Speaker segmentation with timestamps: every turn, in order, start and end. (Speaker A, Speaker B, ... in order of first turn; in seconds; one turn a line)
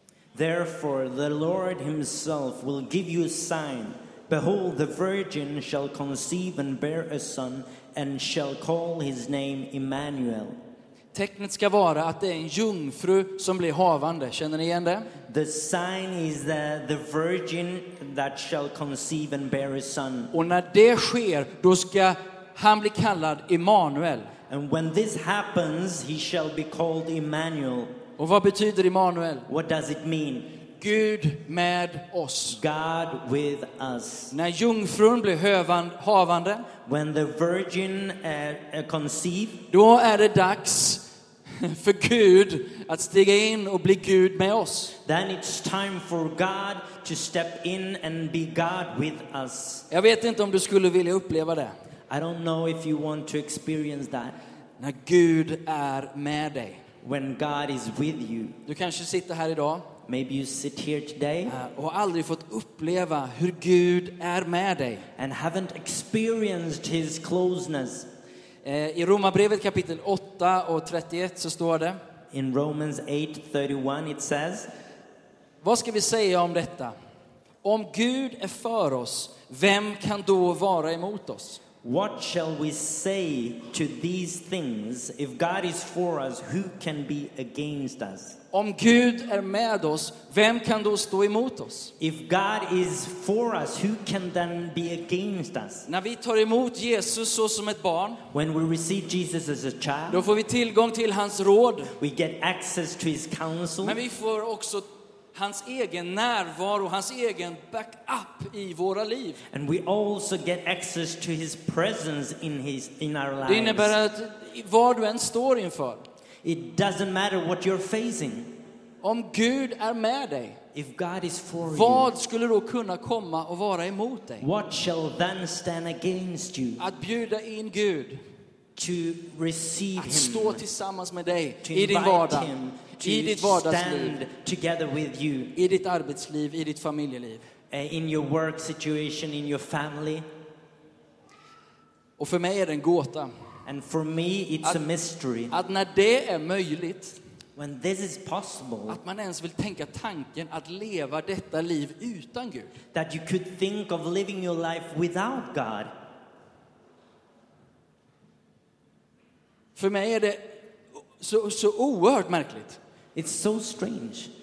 Speaker A: 0.3-10.6
Speaker B: 11.1-15.1
Speaker A: 15.3-20.3
Speaker B: 20.3-24.3
Speaker A: 24.5-28.0
Speaker B: 28.2-29.5
Speaker A: 29.5-30.6
Speaker B: 30.8-32.6
Speaker A: 32.5-34.3
Speaker B: 34.3-36.7
Speaker A: 36.9-39.6
Speaker B: 39.7-45.0
Speaker A: 45.0-49.9
Speaker B: 49.9-51.8
Speaker A: 52.1-54.4
Speaker B: 54.8-56.8
Speaker A: 57.0-58.6
Speaker B: 58.7-59.9
Speaker A: 60.1-61.5
Speaker B: 61.5-65.1
Speaker A: 65.2-68.1
Speaker B: 68.6-72.0
Speaker A: 72.3-74.7
Speaker B: 75.6-76.9
Speaker B: 77.6-81.6
Speaker A: 81.8-88.4
Speaker B: 88.5-91.9
Speaker A: 92.0-95.9
Speaker B: 95.9-98.2
Speaker A: 98.3-100.2
Speaker B: 100.1-101.9
Speaker A: 102.0-104.0
Speaker B: 103.8-109.4
Speaker A: 109.5-114.0
Speaker B: 113.5-116.0
Speaker A: 116.4-118.5
Speaker B: 119.0-120.6
Speaker A: 120.7-122.1
Speaker B: 121.7-124.5
Speaker A: 124.4-126.8
Speaker B: 126.8-128.2
Speaker A: 128.8-130.6
Speaker B: 130.0-134.2
Speaker A: 131.6-135.6
Speaker B: 135.6-137.5
Speaker A: 137.7-140.3
Speaker B: 142.2-143.3
Speaker A: 143.7-145.5
Speaker B: 145.5-147.2
Speaker A: 147.6-149.0
Speaker B: 148.9-152.8
Speaker A: 152.9-155.9
Speaker B: 159.8-160.6
Speaker B: 161.2-162.8
Speaker A: 163.2-164.3